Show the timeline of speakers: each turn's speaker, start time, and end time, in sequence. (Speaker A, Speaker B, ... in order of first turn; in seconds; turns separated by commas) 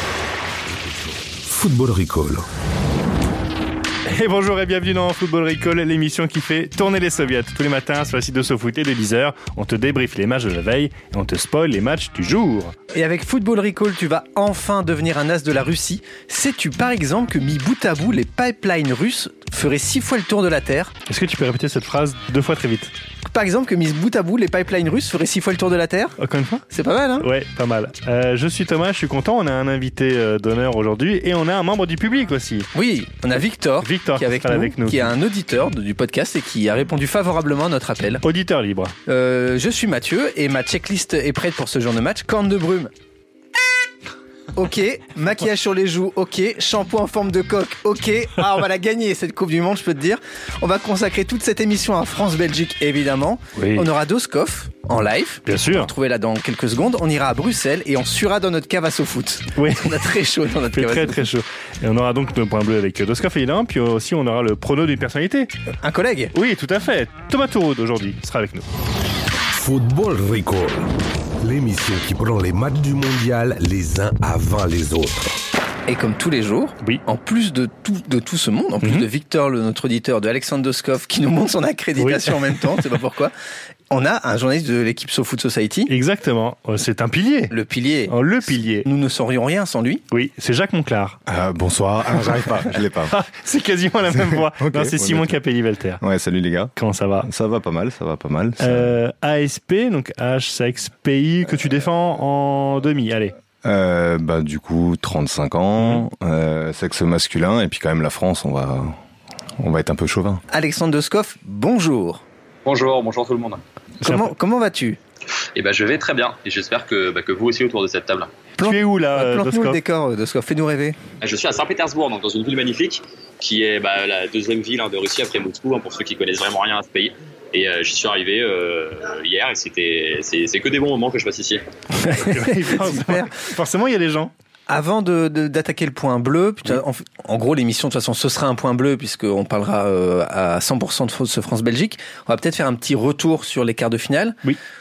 Speaker A: 0.7-2.5, Speaker B: 4.1-12.8, Speaker C: 12.9-20.9, Speaker B: 21.1-22.9, Speaker C: 23.3-26.2, Speaker B: 26.2-26.6, Speaker C: 26.7-27.3, Speaker B: 27.2-32.7, Speaker C: 32.7-38.2, Speaker B: 33.8-35.1, Speaker B: 38.2-39.0, Speaker C: 39.1-42.9, Speaker C: 44.5-61.3, Speaker B: 53.6-53.9, Speaker B: 55.5-55.9, Speaker B: 59.6-60.1, Speaker B: 60.7-65.5, Speaker C: 65.8-66.3, Speaker B: 66.3-68.7, Speaker A: 69.5-70.9, Speaker A: 71.4-75.3, Speaker C: 75.9-83.3, Speaker B: 82.0-82.3, Speaker C: 83.9-85.9, Speaker B: 85.9-87.5, Speaker C: 87.5-88.1, Speaker B: 88.1-88.9, Speaker C: 88.8-90.0, Speaker B: 90.1-91.2, Speaker D: 91.3-93.2, Speaker B: 93.1-96.0, Speaker D: 94.1-95.4, Speaker D: 96.0-99.0, Speaker B: 96.8-97.3, Speaker B: 98.6-103.3, Speaker D: 103.6-109.0, Speaker D: 109.6-110.4, Speaker C: 110.5-112.2, Speaker E: 112.7-113.6, Speaker C: 114.0-115.0, Speaker B: 114.0-114.3, Speaker E: 115.6-118.3, Speaker C: 118.6-121.0, Speaker B: 118.6-119.8, Speaker E: 121.2-131.6, Speaker C: 132.0-133.3, Speaker B: 132.1-134.3, Speaker C: 134.7-144.4